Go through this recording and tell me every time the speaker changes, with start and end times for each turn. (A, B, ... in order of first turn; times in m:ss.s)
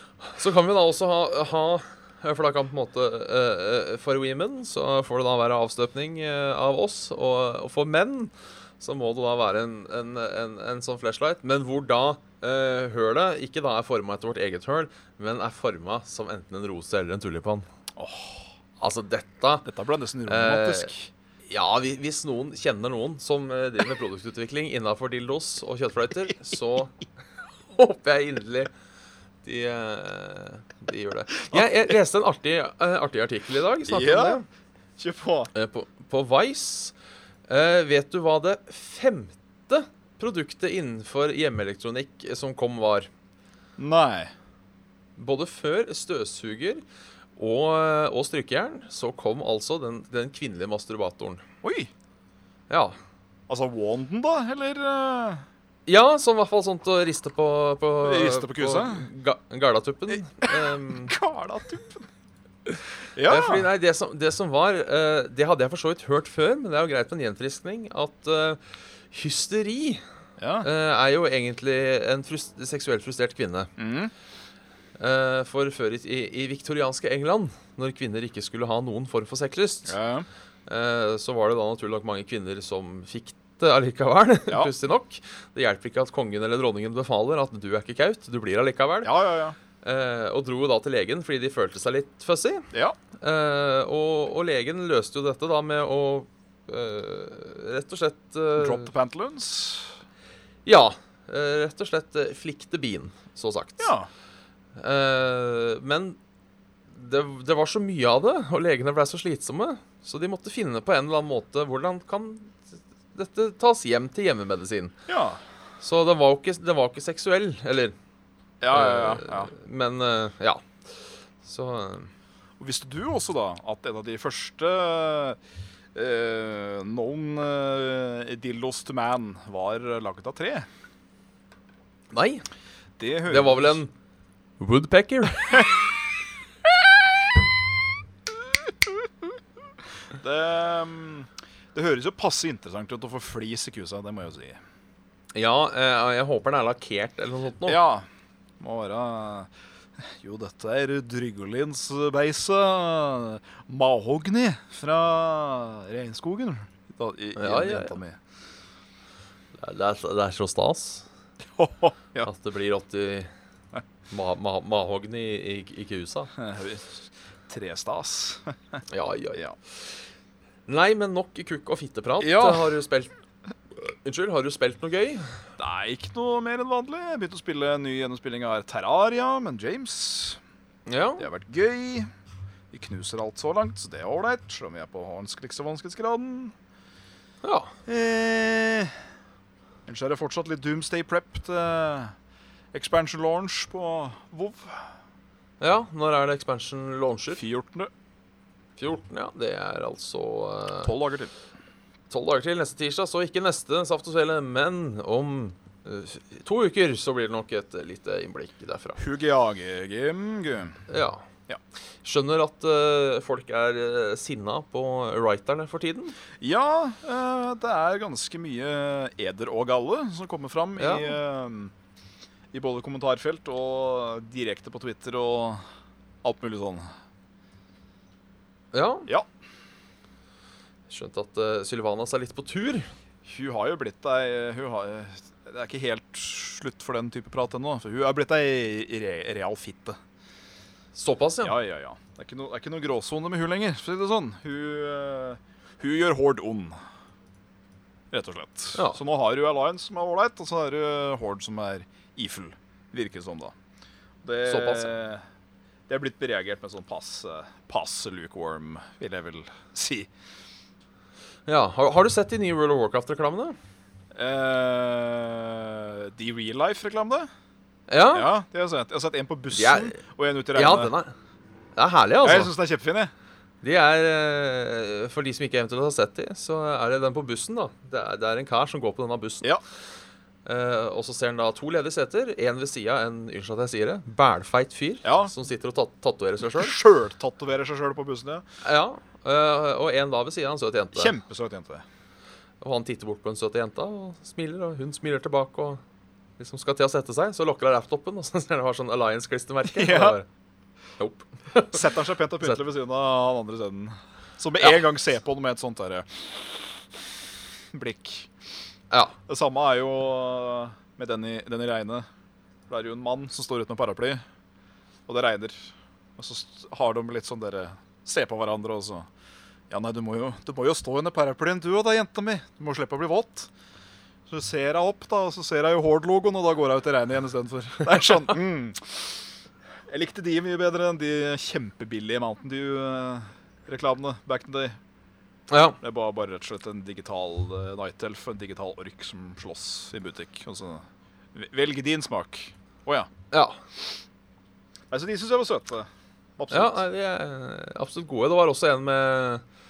0:00.3-0:17.7 A
0:18.0-0:18.5 B
0:18.8-0:19.7 A
0:19.6-0:21.1 B
0:20.3-0:20.9 A
0:21.5-0:27.0 A
0:27.7-0:28.7 A
0:29.4-0:34.4 A
0:33.9-0:34.4 B
0:35.0-0:35.5 B
0:35.5-0:36.9 A
0:37.5-0:43.1 A
0:43.8-0:44.3 B
0:45.2-0:46.8 A
0:47.4-0:51.4 A
0:51.6-0:51.9 B
0:52.7-0:53.0 A
0:53.5-0:55.4 B
0:55.9-1:01.2 A
0:58.0-0:59.1 B
1:00.1-1:02.1 B
1:02.7-1:10.0 A
1:03.2-1:03.7 B
1:10.4-1:10.7 B
1:10.6-1:13.7 A
1:13.8-1:14.1 B
1:15.0-1:20.0 A
1:19.9-1:20.3 B
1:20.7-1:29.1 A
1:29.0-1:29.6 B
1:29.8-1:38.9 A
1:38.6-1:40.0 B
1:40.6-1:43.9 A
1:43.8-1:44.1 B
1:44.8-1:46.2 A
1:46.9-1:54.9 A
1:55.1-1:55.4 B
1:55.8-1:58.0 A
1:58.6-1:59.5 B
1:58.7-2:02.1 A
2:02.6-2:05.4 B
2:05.9-2:10.7 B
2:12.1-2:12.4 A
2:13.0-2:13.8 B
2:13.3-2:13.9 A
2:14.6-2:15.8 A
2:20.1-2:24.6 B
2:25.3-2:27.8 A
2:27.7-2:28.1 B
2:28.6-2:38.2 B
2:37.4-2:38.0 A
2:39.6-2:41.1 A
2:41.6-2:42.3 B
2:42.2-2:43.3 A
2:44.1-2:46.3 A
2:46.4-2:48.8 B
2:48.9-2:49.8 A
2:50.7-2:53.1 A
2:52.2-2:52.8 B
2:53.8-2:55.4 A
2:55.6-3:00.4 B
3:00.9-3:01.3 A
3:01.2-3:02.1 B
3:02.7-3:06.6 B
3:07.4-3:07.7 A
3:07.9-3:09.0 B
3:09.9-3:12.2 B
3:12.7-3:15.0 B
3:15.6-3:17.4 A
3:17.4-3:17.9 B
3:18.8-3:20.9 A
3:20.8-3:21.3 B
3:22.1-3:29.0 A
3:29.0-3:30.8 B
3:30.9-3:31.3 A
3:32.0-3:36.2 A
3:36.4-3:41.7 B
3:40.8-3:41.2 A
3:42.5-3:45.6 B
3:46.2-3:46.9 B
3:48.7-3:49.1 A
3:50.9-3:52.9 A
3:53.2-4:00.0 B
4:00.9-4:01.6 A
4:01.4-4:06.8 B
4:08.1-4:13.6 B
4:14.2-4:15.2 B
4:14.5-4:14.9 A
4:15.9-4:20.1 B
4:21.5-4:23.6 A
4:24.1-4:27.3 B
4:27.9-4:28.3 A
4:28.1-4:30.9 B
4:29.5-4:30.0 A
4:30.6-4:31.1 A
4:31.8-4:32.5 A
4:32.2-4:33.1 B
4:33.6-4:39.5 A
4:40.4-4:46.8 A
4:45.0-4:45.3 B
4:46.5-4:48.4 B
4:48.6-4:51.2 A
4:51.0-4:51.8 B
4:52.6-4:55.8 A
4:56.4-5:00.3 A
4:59.7-5:00.2 B
5:01.0-5:01.8 A
5:01.7-5:06.8 B
5:07.7-5:08.3 B
5:08.9-5:09.2 A
5:09.3-5:12.1 B
5:12.7-5:14.2 B
5:15.1-5:19.1 B
5:19.7-5:23.5 B
5:24.3-5:29.2 B
5:29.9-5:34.8 B
5:35.5-5:35.8 A
5:35.8-5:43.1 B
5:43.3-5:43.6 A
5:44.9-5:46.8 B
5:46.5-5:49.4 A